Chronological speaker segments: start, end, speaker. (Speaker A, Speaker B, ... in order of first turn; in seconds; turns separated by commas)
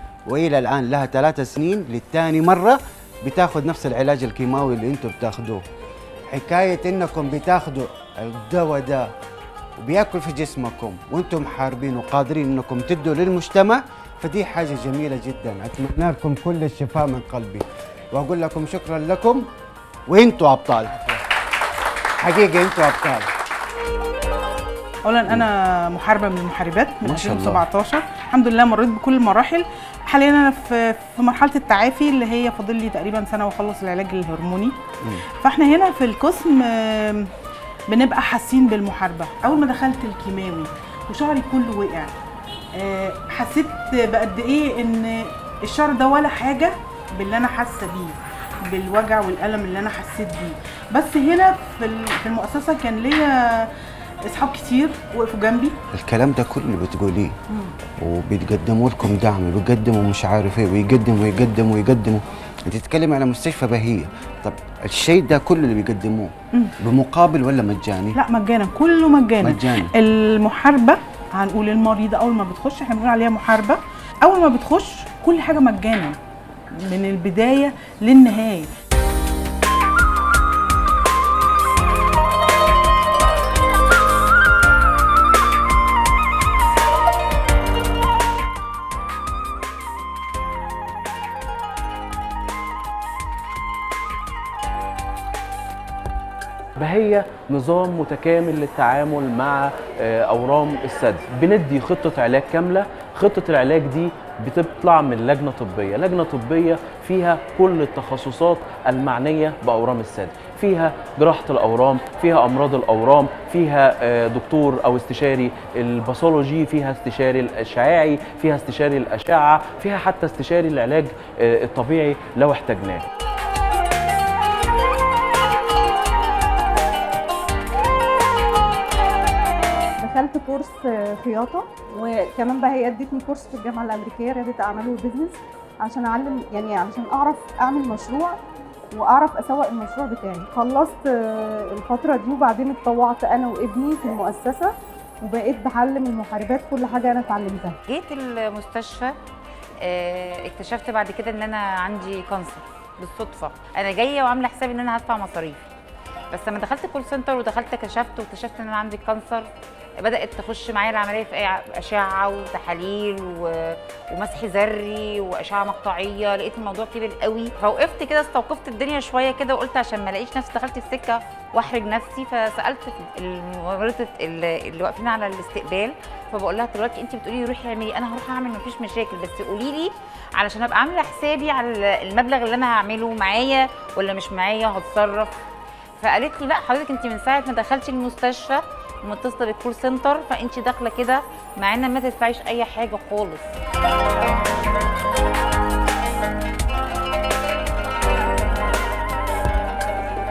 Speaker A: 0.3-5.7, Speaker A: 6.3-9.1, Speaker A: 9.8-19.5, Speaker A: 20.1-21.2, Speaker A: 22.2-23.3, Speaker B: 25.0-34.8, Speaker A: 27.0-27.7, Speaker B: 35.4-37.3, Speaker B: 37.9-42.1, Speaker B: 42.8-53.7, Speaker B: 54.3-55.7, Speaker A: 55.9-57.4, Speaker A: 58.0-68.2, Speaker B: 68.2-76.2, Speaker A: 69.4-69.9, Speaker B: 76.8-78.7, Speaker C: 96.8-123.0, Speaker D: 130.0-138.4, Speaker D: 138.9-147.8, Speaker E: 147.9-149.1, Speaker E: 149.8-155.6, Speaker E: 156.3-159.5, Speaker E: 160.0-185.3, Speaker E: 186.0-193.5